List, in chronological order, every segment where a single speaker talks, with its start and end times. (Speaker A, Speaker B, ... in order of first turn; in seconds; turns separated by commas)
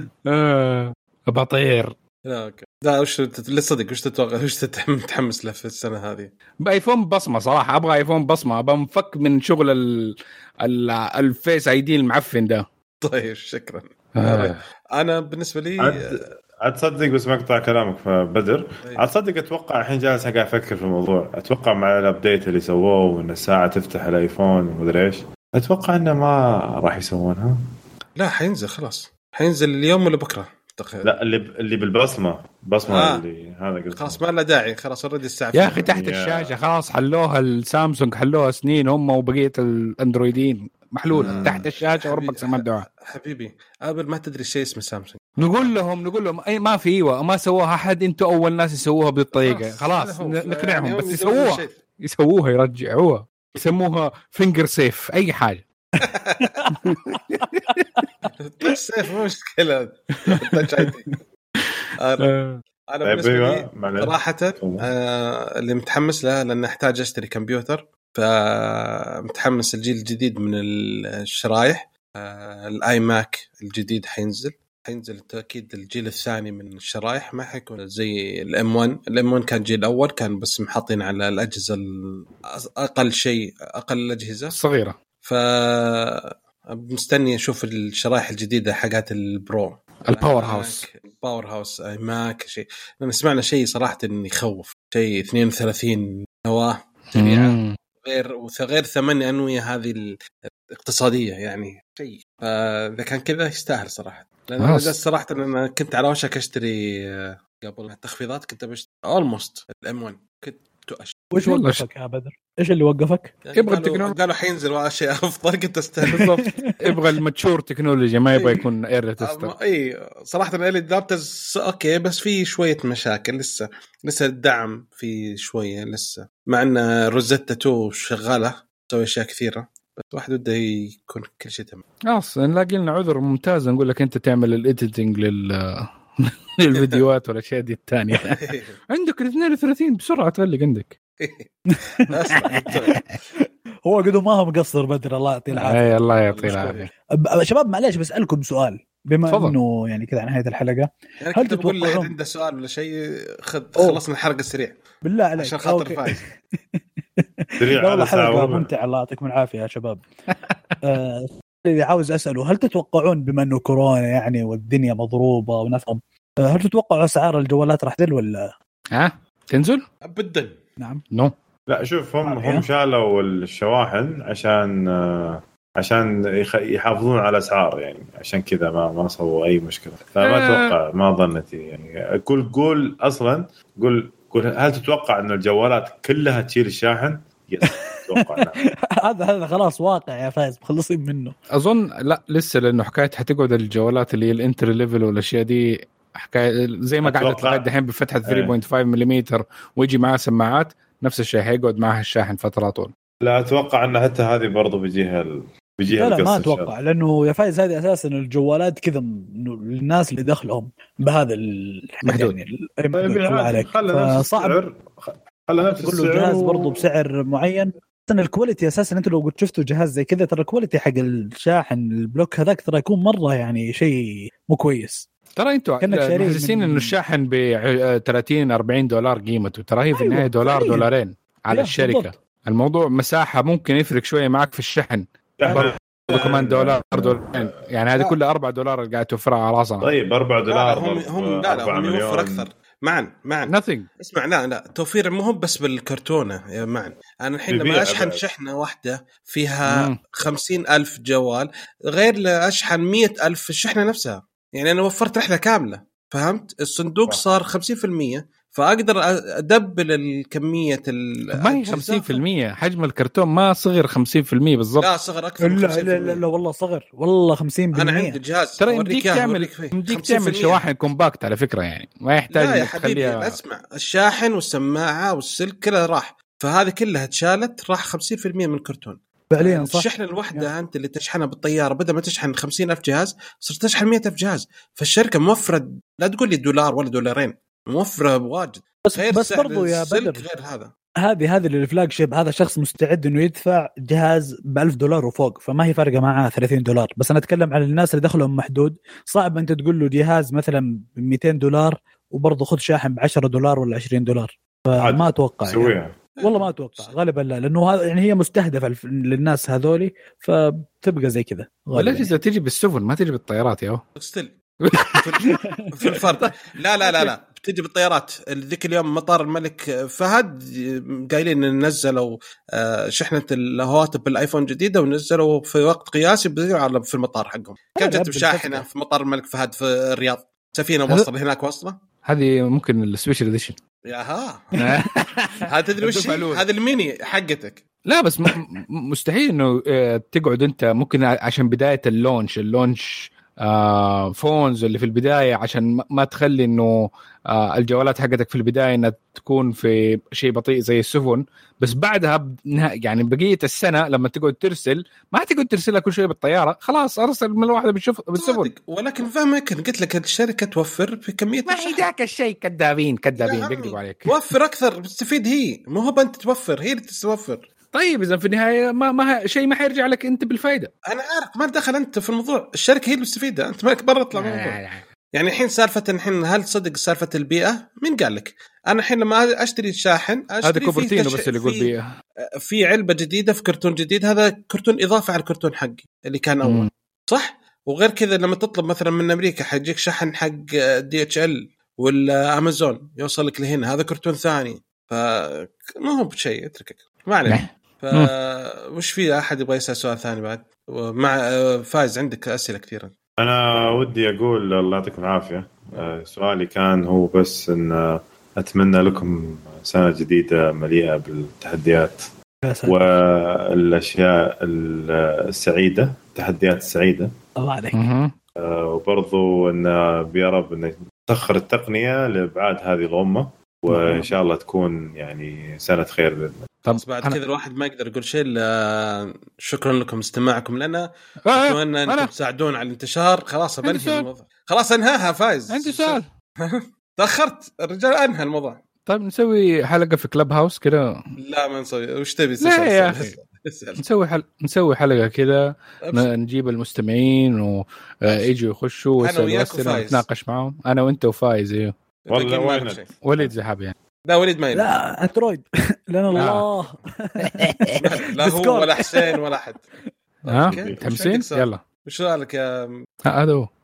Speaker A: 0.3-1.9, Speaker B: 2.3-6.3, Speaker A: 6.6-12.7, Speaker B: 13.0-16.1, Speaker A: 14.2-14.6, Speaker C: 15.8-27.6, Speaker B: 28.2-31.1, Speaker C: 31.0-34.2, Speaker B: 32.9-33.2, Speaker B: 33.9-35.9, Speaker A: 35.5-42.9, Speaker C: 35.9-36.6, Speaker C: 41.1-41.7, Speaker B: 41.2-45.8, Speaker A: 45.4-55.6, Speaker B: 49.4-51.8, Speaker B: 56.0-56.6, Speaker D: 56.4-57.5, Speaker A: 57.3-57.8, Speaker D: 58.0-58.3, Speaker B: 58.5-61.2, Speaker B: 62.0-62.3, Speaker A: 62.2-62.6, Speaker B: 62.9-84.6, Speaker C: 63.0-64.9, Speaker A: 84.5-85.0, Speaker B: 85.2-111.2, Speaker A: 90.0-90.9, Speaker A: 97.2-97.8, Speaker A: 104.6-105.0, Speaker D: 111.3-113.3, Speaker A: 111.4-111.9, Speaker B: 113.5-116.3, Speaker A: 113.5-114.2, Speaker D: 116.1-117.0, Speaker A: 116.1-119.5, Speaker B: 118.3-118.7, Speaker B: 119.2-131.8, Speaker A: 132.1-141.0, Speaker B: 136.7-137.0, Speaker B: 138.1-138.8, Speaker B: 141.2-141.5, Speaker D: 141.7-143.0, Speaker B: 142.0-143.0, Speaker D: 143.9-152.1, Speaker A: 145.6-146.9, Speaker B: 146.3-146.9, Speaker A: 149.3-149.6, Speaker B: 151.2-154.8, Speaker D: 153.8-154.0, Speaker D: 155.0-160.0, Speaker B: 155.4-156.2, Speaker C: 157.6-158.7, Speaker D: 160.8-168.5, Speaker A: 168.9-169.8, Speaker B: 170.0-170.6, Speaker C: 171.7-188.6, Speaker D: 172.2-172.7, Speaker A: 180.2-180.8, Speaker D: 187.6-188.5, Speaker D: 189.0-191.4, Speaker A: 191.5-202.9, Speaker C: 197.0-197.7, Speaker C: 198.3-198.5, Speaker C: 203.2-206.7, Speaker D: 205.9-214.6, Speaker A: 212.1-212.3, Speaker C: 212.9-216.8, Speaker D: 215.6-225.1, Speaker A: 225.4-239.9, Speaker D: 225.8-226.9, Speaker D: 230.0-230.9, Speaker D: 231.5-232.1, Speaker C: 235.4-237.5, Speaker C: 239.8-242.5, Speaker B: 240.5-262.2, Speaker A: 243.5-243.9, Speaker C: 247.5-248.2, Speaker A: 249.7-250.0, Speaker A: 261.4-264.9, Speaker B: 264.8-266.2, Speaker D: 265.4-268.2, Speaker B: 267.7-270.6, Speaker A: 268.6-273.4, Speaker B: 272.3-290.7, Speaker D: 279.3-280.5, Speaker D: 288.9-290.3, Speaker D: 291.0-312.1, Speaker C: 304.8-305.9, Speaker B: 306.2-307.0, Speaker A: 311.7-313.8, Speaker B: 314.0-331.8, Speaker A: 314.6-316.3, Speaker D: 327.8-328.6, Speaker A: 332.1-333.6, Speaker B: 333.9-334.5, Speaker A: 334.6-336.4, Speaker B: 335.5-337.6, Speaker A: 337.9-358.5, Speaker B: 358.2-361.9, Speaker A: 361.5-364.2, Speaker B: 363.2-367.5, Speaker A: 367.7-370.7, Speaker B: 370.9-374.6, Speaker A: 374.1-374.9, Speaker B: 375.1-381.7, Speaker A: 380.4-381.9, Speaker B: 382.4-402.9, Speaker A: 386.4-386.7, Speaker A: 397.3-398.1, Speaker C: 403.2-412.1, Speaker D: 412.4-412.8, Speaker C: 412.7-417.1, Speaker D: 417.4-417.8, Speaker A: 417.7-418.1, Speaker C: 418.4-426.4, Speaker A: 426.6-427.2, Speaker B: 426.7-438.6, Speaker A: 431.3-432.1, Speaker A: 433.6-434.1, Speaker A: 435.5-436.1, Speaker A: 438.9-440.9, Speaker B: 441.2-443.8, Speaker A: 442.4-443.1, Speaker A: 443.8-451.8, Speaker B: 449.0-450.1, Speaker B: 452.1-452.9, Speaker C: 452.1-453.3, Speaker A: 453.0-453.8, Speaker B: 454.1-454.7, Speaker D: 454.5-458.9, Speaker A: 456.1-456.4, Speaker B: 457.8-459.6, Speaker B: 460.2-462.9, Speaker A: 460.3-461.6, Speaker C: 460.4-460.8, Speaker A: 463.1-463.5